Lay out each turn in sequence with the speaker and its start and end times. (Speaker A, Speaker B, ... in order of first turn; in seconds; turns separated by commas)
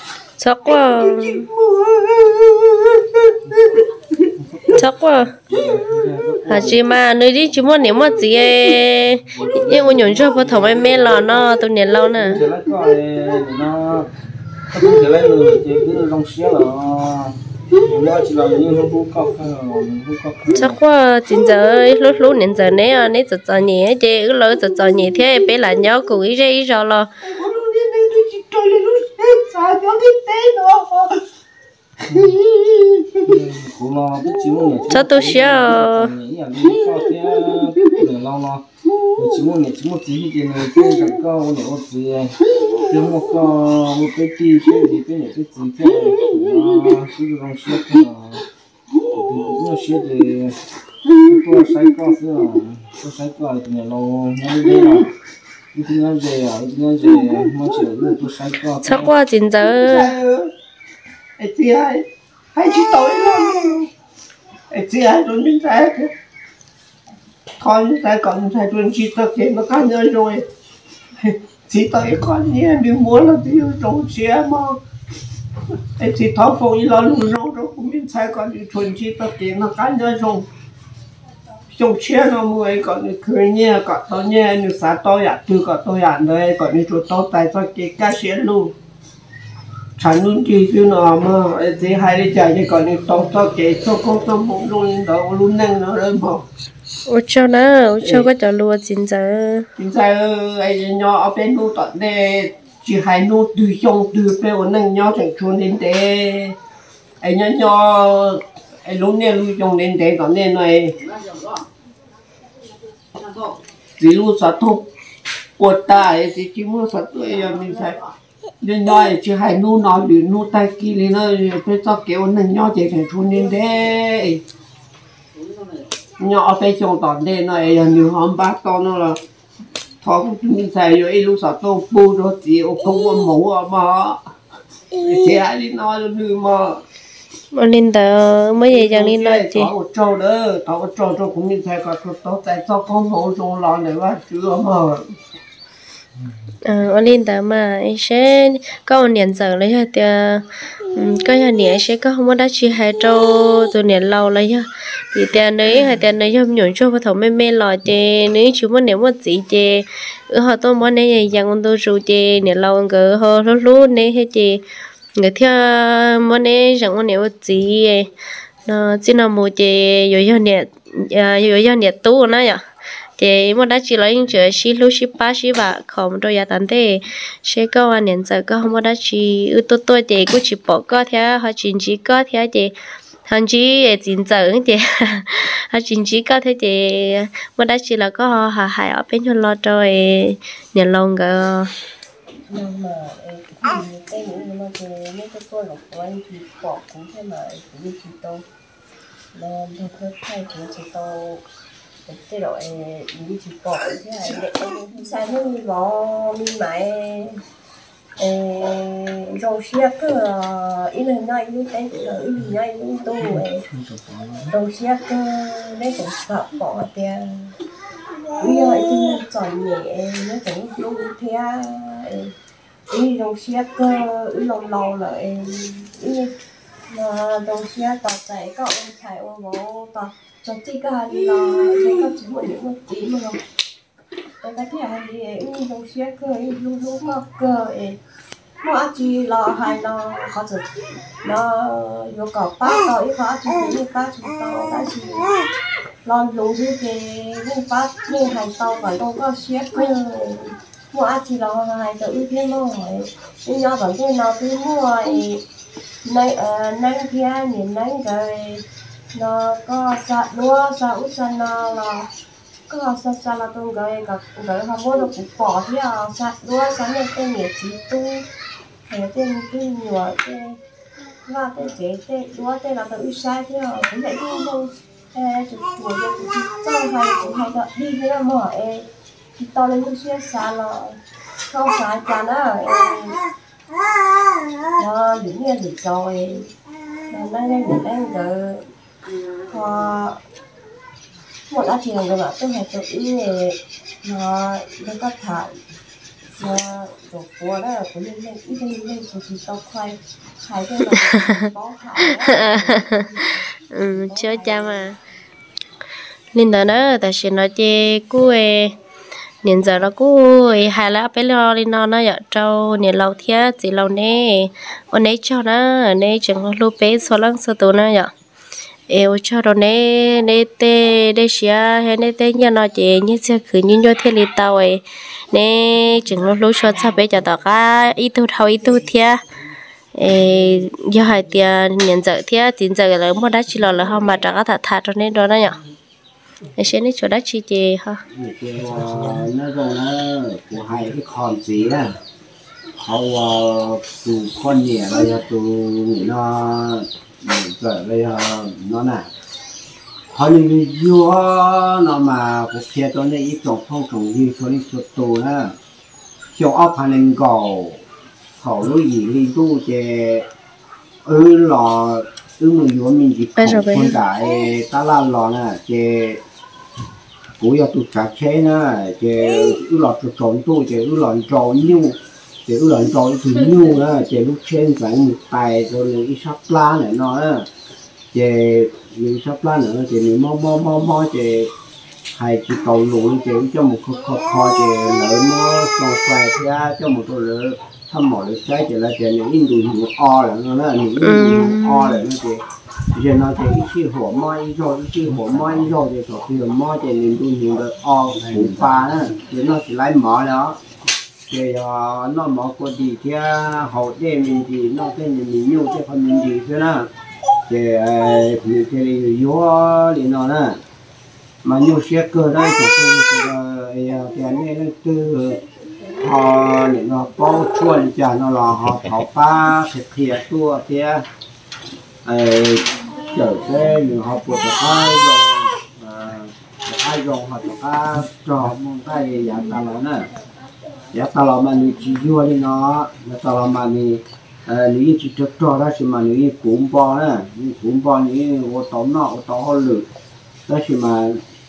Speaker A: 0.4-1.4, Speaker B: 0.8-4.3, Speaker C: 4.4-6.8, Speaker A: 4.8-5.3, Speaker A: 6.5-12.4, Speaker C: 9.3-11.5, Speaker C: 12.1-14.1, Speaker C: 14.7-20.8, Speaker A: 20.5-27.1, Speaker B: 27.2-31.2, Speaker B: 32.1-33.3, Speaker C: 33.2-48.4, Speaker A: 34.9-36.1, Speaker C: 49.1-50.5, Speaker C: 51.2-55.1, Speaker C: 55.7-59.1, Speaker A: 58.8-60.1, Speaker B: 59.7-60.5, Speaker B: 61.4-63.9, Speaker B: 64.7-66.1, Speaker B: 67.6-70.4, Speaker B: 71.2-74.8, Speaker B: 76.0-80.5, Speaker B: 81.7-88.7, Speaker B: 90.0-96.5, Speaker A: 97.1-99.7, Speaker B: 99.8-106.5, Speaker B: 107.2-111.0, Speaker B: 114.0-114.9, Speaker B: 115.6-118.0, Speaker B: 118.6-124.4, Speaker B: 126.2-129.2, Speaker B: 130.0-134.3, Speaker B: 135.0-136.8, Speaker A: 137.5-139.7, Speaker B: 138.7-145.1, Speaker A: 146.6-164.6, Speaker A: 165.2-168.1, Speaker A: 168.6-172.6, Speaker A: 173.2-182.7, Speaker A: 183.2-191.7, Speaker D: 192.5-198.4, Speaker D: 199.3-201.4, Speaker D: 202.1-207.4, Speaker D: 208.2-213.6, Speaker C: 213.7-214.5, Speaker D: 214.5-217.6, Speaker D: 218.4-222.3, Speaker D: 222.9-226.3, Speaker D: 226.9-233.4, Speaker D: 234.4-238.0, Speaker D: 238.6-245.3, Speaker D: 246.0-255.4, Speaker D: 256.0-262.1, Speaker D: 262.7-268.3, Speaker D: 268.9-270.6, Speaker D: 271.2-283.2, Speaker D: 284.8-286.5, Speaker D: 287.1-288.7, Speaker D: 289.5-290.2, Speaker D: 291.5-295.6, Speaker D: 296.4-303.2, Speaker A: 302.1-305.0, Speaker D: 303.9-304.8, Speaker A: 306.3-308.8, Speaker A: 309.4-318.1, Speaker A: 318.9-329.2, Speaker A: 329.9-335.6, Speaker A: 336.6-338.0, Speaker E: 338.1-342.0, Speaker E: 342.8-349.1, Speaker E: 350.1-355.6, Speaker E: 356.3-357.8, Speaker E: 358.4-360.3, Speaker E: 361.1-366.2, Speaker A: 363.4-364.0, Speaker E: 367.4-377.5, Speaker E: 378.1-381.5, Speaker E: 382.1-400.6, Speaker A: 391.0-392.0, Speaker E: 401.3-406.9, Speaker E: 407.5-410.6, Speaker E: 411.4-415.4, Speaker E: 416.0-421.1, Speaker E: 422.1-430.1, Speaker E: 430.9-439.9, Speaker E: 440.5-441.2